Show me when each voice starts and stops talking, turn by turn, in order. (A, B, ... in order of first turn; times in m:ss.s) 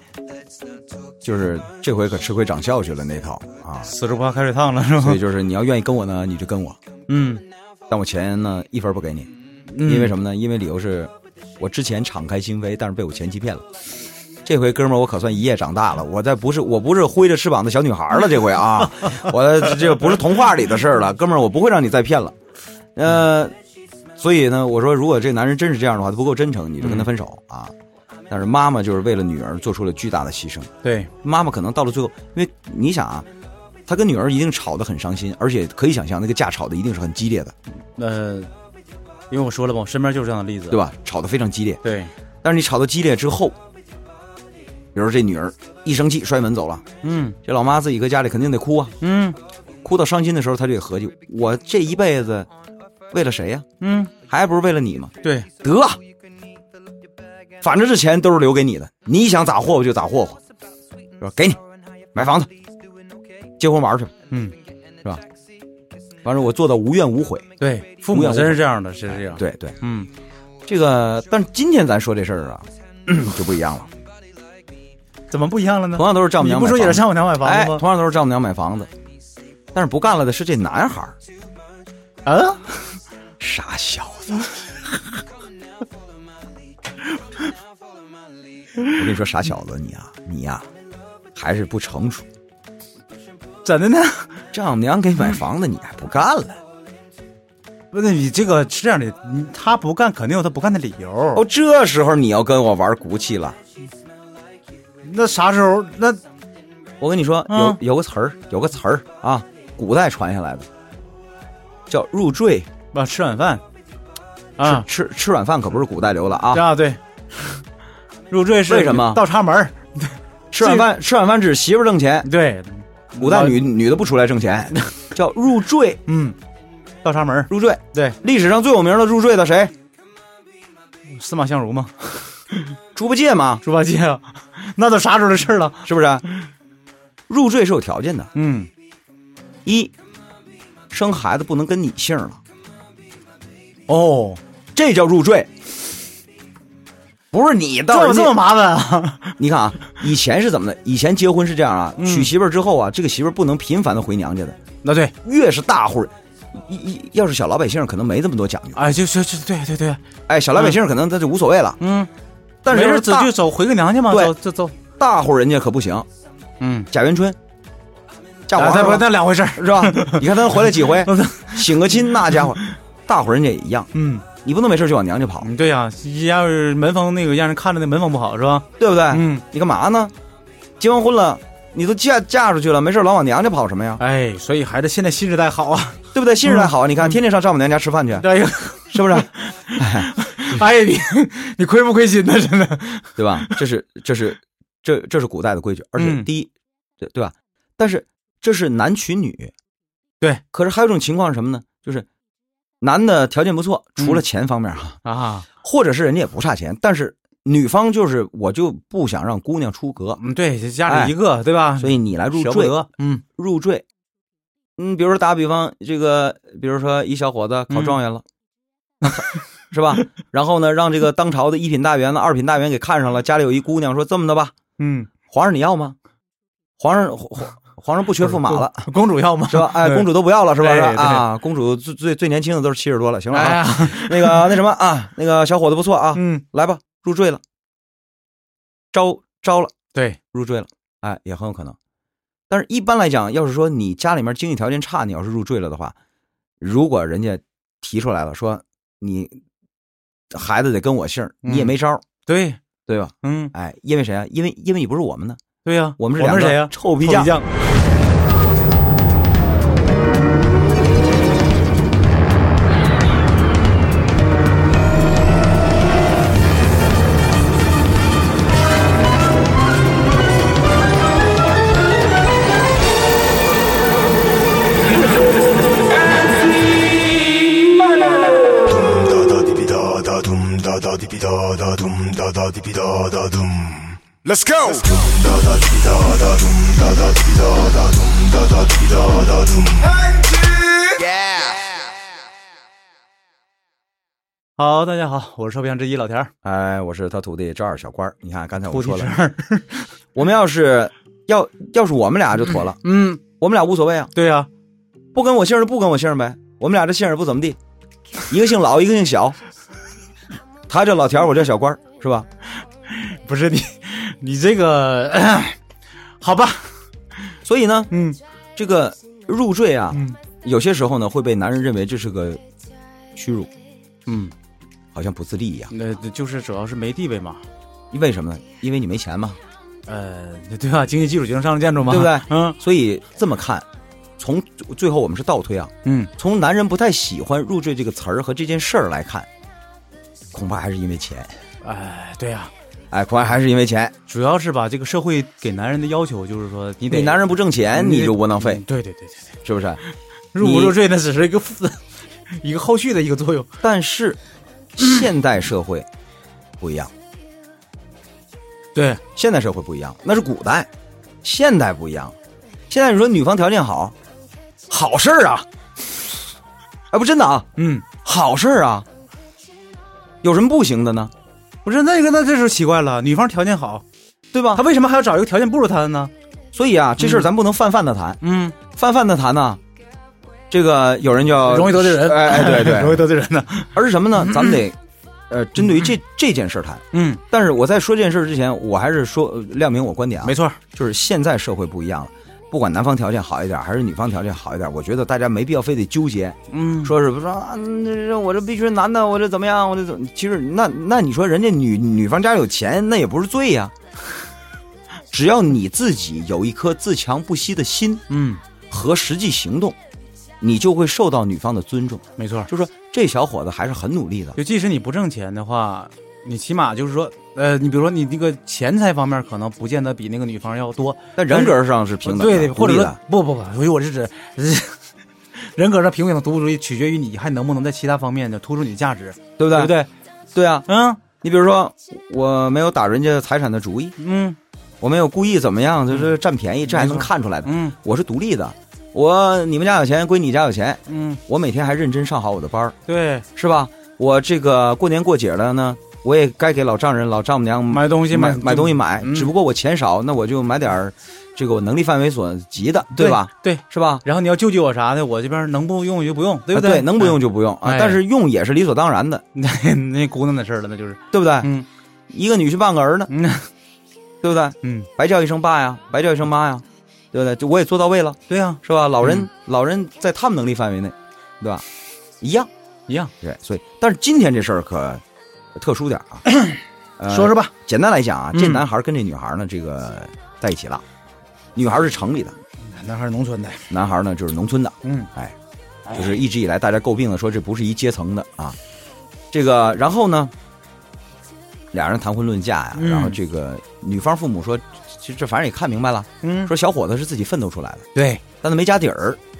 0:01.2-0:03.9 A
0:03.8-0:05.2 B
0:05.0-0:06.8 A
0:07.1-0:07.4 B
0:07.9-0:09.3 A
0:09.7-0:10.1 B
0:09.8-0:13.6 A
0:14.4-0:22.3 A
0:23.0-0:23.5 A
0:24.2-0:27.7 A
0:26.8-0:27.1 B
0:28.3-0:33.3 A
0:30.8-0:31.1 B
0:33.8-0:37.5 A
0:38.0-0:38.5 B
0:39.3-0:40.8 B
0:40.7-0:41.8 A
0:41.8-0:42.1 B
0:42.4-0:43.6 A
0:44.9-0:48.9 A
0:47.0-0:47.4 B
0:49.0-0:49.4 B
0:49.8-0:52.5 A
0:53.1-0:53.6 A
0:53.8-0:54.1 B
0:54.2-0:56.0 A
0:55.2-0:55.5 B
0:57.6-1:00.4 A
1:01.2-1:01.6 A
1:02.1-1:02.5 A
1:03.6-1:04.1 A
1:06.2-1:07.5 A
1:07.6-1:10.1 B
1:08.1-1:09.8 A
1:10.6-1:13.9 A
1:15.3-1:17.8 B
1:16.0-1:18.9 A
1:19.7-1:21.2 A
1:22.2-1:23.0 B
1:23.4-1:24.5 A
1:28.9-1:30.7 A
1:31.3-1:32.3 A
1:33.6-1:34.4 B
1:34.5-1:36.6 A
1:37.9-1:41.4 B
1:41.3-1:43.6 A
1:45.0-1:46.2 B
1:47.0-1:50.7 A
1:47.5-1:47.8 B
1:51.9-1:52.7 A
1:52.9-1:53.6 B
1:54.6-1:54.9 B
1:54.6-1:56.7 A
1:56.5-1:57.6 B
1:58.3-2:00.9 B
1:58.6-1:59.2 A
2:00.5-2:02.3 A
2:02.2-2:03.6 B
2:03.2-2:06.0 A
2:06.1-2:06.4 B
2:07.0-2:08.2 B
2:07.5-2:09.7 A
2:11.1-2:12.6 B
2:12.9-2:13.6 A
2:13.6-2:15.8 B
2:15.8-2:16.2 A
2:17.3-2:18.3 A
2:18.3-2:18.7 B
2:19.6-2:19.9 A
2:20.9-2:22.4 A
2:23.9-2:24.4 B
2:24.7-2:25.5 A
2:27.3-2:28.4 A
2:27.9-2:29.4 B
2:29.4-2:34.6 A
2:32.0-2:32.3 B
2:34.8-2:35.1 B
2:35.2-2:38.8 A
2:38.7-2:40.0 B
2:40.3-2:41.8 A
2:41.8-2:42.1 B
2:42.6-2:43.3 A
2:42.7-2:44.7 B
2:44.1-2:44.4 A
2:45.0-2:46.1 A
2:46.6-2:46.9 B
2:46.9-2:47.4 A
2:48.5-2:55.5 A
2:48.5-2:52.7 B
2:53.9-2:54.2 B
2:55.4-2:59.4 B
2:58.8-3:00.1 A
3:00.8-3:04.0 A
3:04.0-3:07.1 B
3:06.1-3:08.3 A
3:08.2-3:13.6 B
3:08.9-3:10.1 A
3:13.2-3:19.5 A
3:16.0-3:16.3 B
3:20.5-3:22.1 A
3:22.8-3:25.0 A
3:24.0-3:24.2 B
3:25.0-3:25.5 B
3:25.6-3:30.2 A
3:30.2-3:33.2 B
3:30.8-3:31.2 A
3:31.8-3:32.8 A
3:33.3-3:33.8 A
3:34.8-3:38.2 A
3:37.7-3:38.0 B
3:39.0-3:44.5 A
3:44.8-3:45.1 B
3:45.2-3:46.0 A
3:46.8-3:48.9 A
3:48.2-3:51.2 B
3:49.5-3:57.4 A
3:53.3-3:54.6 B
3:56.1-3:56.4 B
3:58.9-3:59.7 A
4:00.3-4:01.8 A
4:02.5-4:05.9 A
4:06.6-4:09.4 A
4:10.3-4:12.0 A
4:11.4-4:11.7 B
4:12.2-4:12.6 B
4:12.9-4:15.4 A
4:13.2-4:13.5 B
4:15.6-4:17.5 B
4:16.0-4:17.3 A
4:38.6-4:51.7 C
4:54.6-4:56.3 B
4:56.4-4:59.1 A
4:58.7-4:59.9 B
5:00.1-5:04.1 A
5:02.8-5:03.2 B
5:04.1-5:04.5 B
5:05.1-5:07.6 A
5:08.3-5:09.4 A
5:10.7-5:12.3 A
5:12.9-5:15.6 B
5:16.2-5:16.8 B
5:17.4-5:17.9 A
5:17.9-5:18.2 B
5:18.6-5:22.4 A
5:19.9-5:20.2 B
5:23.1-5:23.5 A
5:24.1-5:24.3 B
5:24.9-5:25.7 A
5:25.7-5:27.4 B
5:27.9-5:29.4 A
5:29.9-5:32.6 B
5:31.8-5:33.6 A
5:34.2-5:39.3 A
5:35.8-5:36.1 B
5:40.3-5:41.4 A
5:41.6-5:42.5 B
5:42.9-5:43.9 A
5:44.1-5:49.3 B
5:46.8-5:48.6 A
5:49.4-5:49.8 A
5:50.3-5:53.5 B
5:50.4-5:50.8 A
5:53.6-5:54.2 A
5:54.8-5:55.9 A
5:56.6-5:56.9 A
5:58.7-5:59.0 B
5:59.1-6:00.7 A
6:01.2-6:02.1 A
6:02.7-6:03.9 A
6:04.7-6:06.1 A
6:06.9-6:08.9 A
6:07.6-6:07.8 B
6:10.2-6:11.1 A
6:11.6-6:13.8 B
6:14.3-6:14.6 A
6:14.5-6:16.1 B
6:16.5-6:19.6 A
6:17.0-6:17.3 B
6:18.2-6:18.6 B
6:20.5-6:23.0 A
6:21.4-6:24.6 B
6:23.7-6:24.8 A
6:25.3-6:43.7 A
6:26.9-6:27.2 B
6:30.2-6:30.6 B
6:36.5-6:36.9 B
6:45.1-6:48.0 A
6:48.1-6:48.4 B
6:48.7-6:49.8 A
6:50.4-6:54.4 A
6:52.2-6:52.5 B
6:54.4-7:04.8 B
7:01.2-7:03.0 A
7:05.3-7:09.9 B
7:09.4-7:09.7 A
7:10.3-7:14.0 A
7:10.7-7:11.0 B
7:14.0-7:14.4 B
7:14.8-7:22.8 A
7:16.7-7:17.8 B
7:20.9-7:21.2 B
7:22.9-7:23.2 B
7:23.4-7:34.0 A
7:27.7-7:29.3 B
7:33.0-7:38.0 B
7:36.5-7:39.2 A
7:39.3-7:41.7 B
7:41.1-7:41.5 A
7:42.1-7:43.1 A
7:43.1-7:43.5 B
7:44.2-7:51.6 A
7:44.6-7:44.9 B
7:48.3-7:49.3 B
7:52.2-7:52.5 A
7:53.2-7:55.0 A
7:55.5-7:56.2 A
7:56.2-7:57.5 B
7:57.0-8:00.8 A
7:58.3-7:58.6 B
8:01.5-8:02.4 A
8:02.6-8:03.7 B
8:03.7-8:05.3 A
8:04.8-8:05.1 B
8:05.9-8:08.6 A
8:09.3-8:10.3 A
8:11.7-8:19.2 A
8:12.8-8:13.2 B
8:16.2-8:16.5 B
8:17.9-8:18.2 B